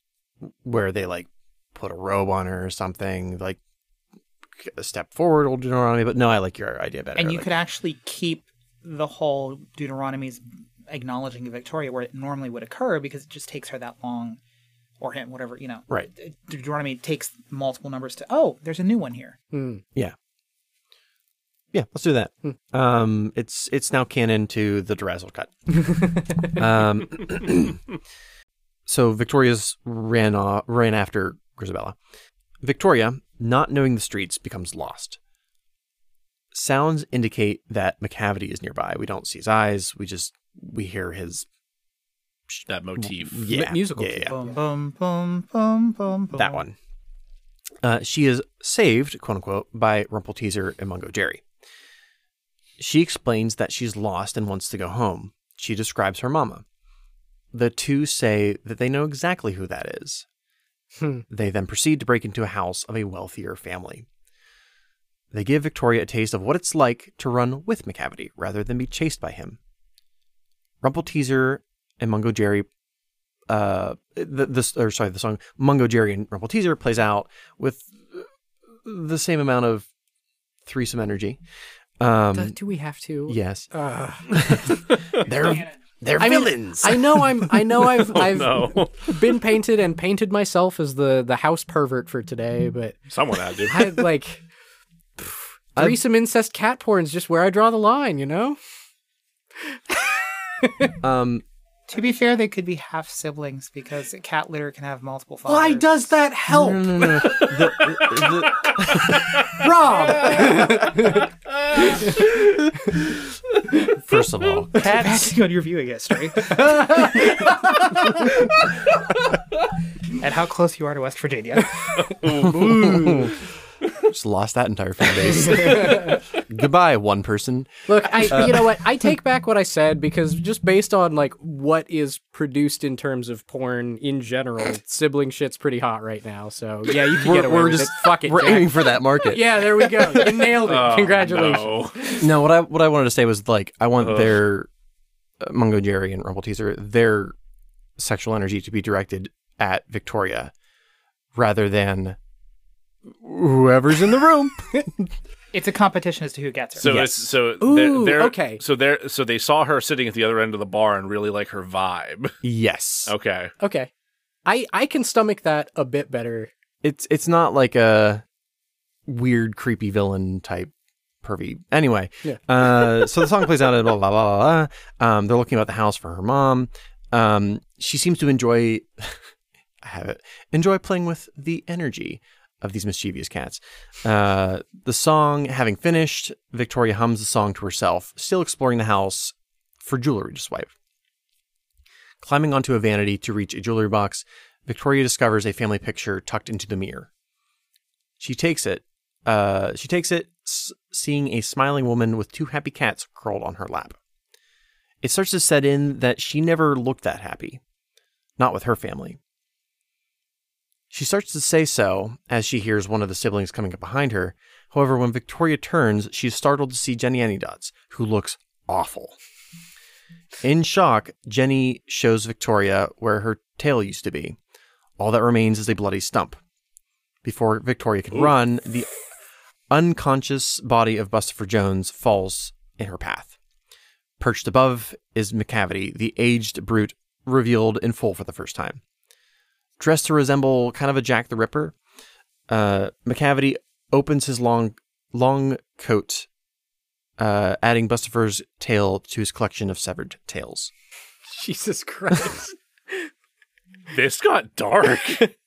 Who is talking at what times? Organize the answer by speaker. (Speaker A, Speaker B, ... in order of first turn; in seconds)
Speaker A: 0.4-3.6, 4.6-7.5, 21.7-25.6, 26.5-27.8, 28.9-32.0, 32.6-35.2, 36.5-41.5, 43.0-44.4, 46.4-46.8, 47.8-51.4, 52.8-56.6, 57.5-60.2, 61.3-64.1, 65.3-69.6, 70.8-72.7, 73.5-78.3, 78.8-79.9, 80.7-81.4, 82.0-82.6, 83.3-83.7, 84.3-87.7, 101.0-101.4, 105.5-110.7, 113.9-115.2, 122.5-123.4, 124.0-128.8, 137.1-140.5, 142.2-144.7, 145.4-147.3, 148.0-150.5, 151.3-152.2, 153.1-155.1, 156.8-157.3, 162.4-163.1, 166.8-168.2, 169.1-170.7, 171.2-179.3, 179.8-190.7, 192.2-197.1, 198.2-204.0, 205.0-207.6, 208.4-209.2, 210.9-219.2, 220.4-224.4, 225.0-226.4, 227.2-228.9, 229.7-233.3, 234.2-238.8, 239.8-241.8, 242.5-246.3, 247.2-250.7
Speaker B: 7.2-14.4, 15.0-19.4, 44.3-46.6, 101.9-106.1, 114.8-117.1, 120.1-122.2, 155.5-157.1
Speaker C: 19.5-19.8, 25.9-26.2, 43.5-44.5, 61.0-61.2, 82.3-84.9, 86.2-94.4, 95.2-98.6, 99.6-101.0, 109.5-113.1, 116.4-118.3, 122.2-123.3, 125.4-126.2, 127.9-142.3, 157.6-158.6, 163.6-163.9, 164.5-166.5, 172.2-173.1, 251.3-253.1
Speaker D: 42.7-43.5, 88.1-89.2, 93.1-93.9, 107.2-109.7, 110.2-110.9, 111.5-112.5, 122.0-123.1, 140.6-142.1, 144.0-144.4, 156.8-162.3, 163.1-163.5, 253.9-255.3